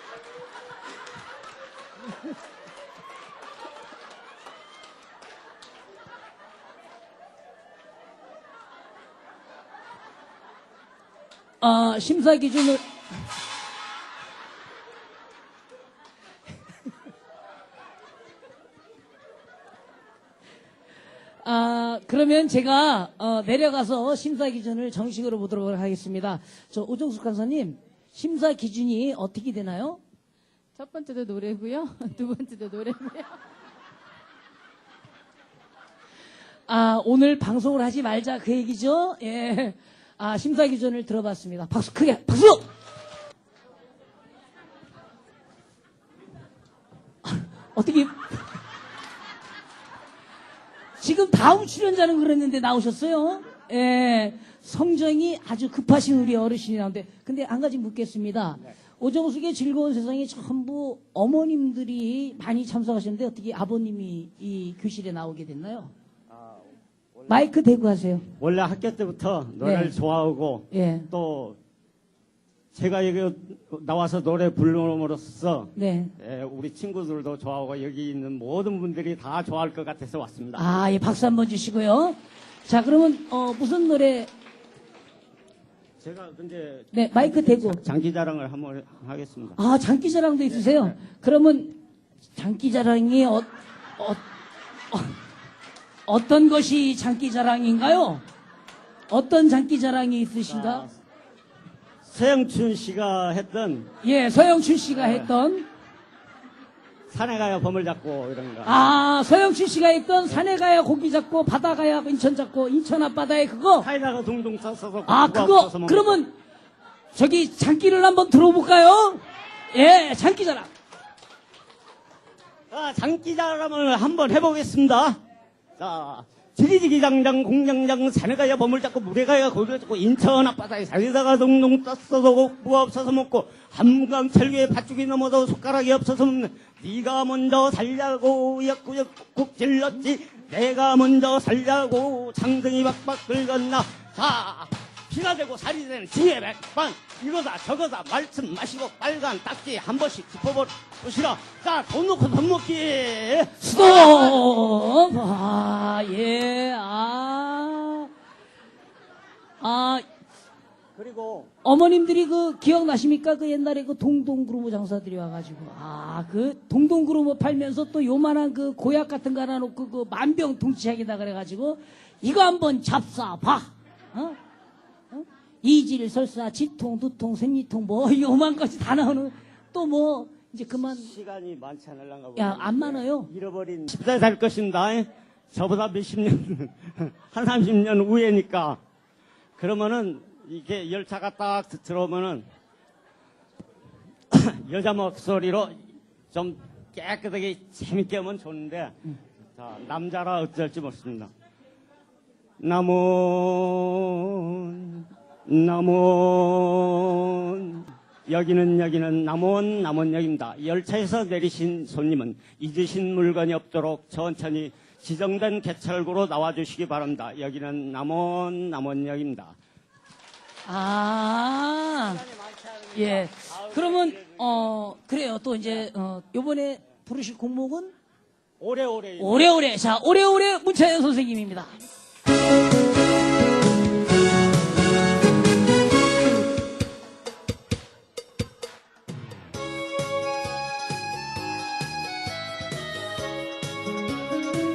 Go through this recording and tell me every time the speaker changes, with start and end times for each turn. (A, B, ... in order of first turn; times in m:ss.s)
0:11.6-0:12.9 A
0:21.4-0:30.0 A
0:30.8-0:33.4 B
0:36.7-0:42.7 A
0:47.2-0:48.4 A
0:51.0-1:05.9 A
1:06.3-1:06.6 C
1:07.3-1:08.3 A
1:08.4-1:11.6 C
1:09.6-1:10.0 A
1:10.7-1:11.1 A
1:12.7-1:20.6 C
1:15.8-1:16.1 A
1:20.6-1:24.3 A
1:26.0-1:29.6 C
1:26.9-1:27.8 A
1:29.6-1:31.8 A
1:30.5-1:30.9 C
1:32.4-1:34.2 A
1:34.9-1:35.2 A
1:36.1-1:38.2 A
1:39.1-1:40.8 A
1:40.5-1:41.0 C
1:42.0-1:43.9 C
1:44.0-1:45.7 A
1:44.9-1:45.3 C
1:47.1-1:48.8 C
1:48.6-1:53.9 A
1:53.8-1:56.2 C
1:55.1-1:56.4 A
1:57.2-2:00.7 A
2:02.7-2:05.2 C
2:05.8-2:34.4 C
2:33.6-2:38.1 A
2:39.6-2:40.0 A
2:41.0-2:41.5 C
2:41.6-2:54.4 A
2:55.1-3:01.1 A
3:00.9-3:08.8 C
3:02.4-3:03.3 A
3:09.6-3:12.5 C
3:14.3-3:15.8 C
3:16.3-3:21.3 C
3:22.6-3:39.6 C
3:40.7-3:42.2 A
3:42.1-3:44.7 C
3:42.9-3:47.9 A
3:48.6-3:49.5 C
3:49.2-3:51.8 A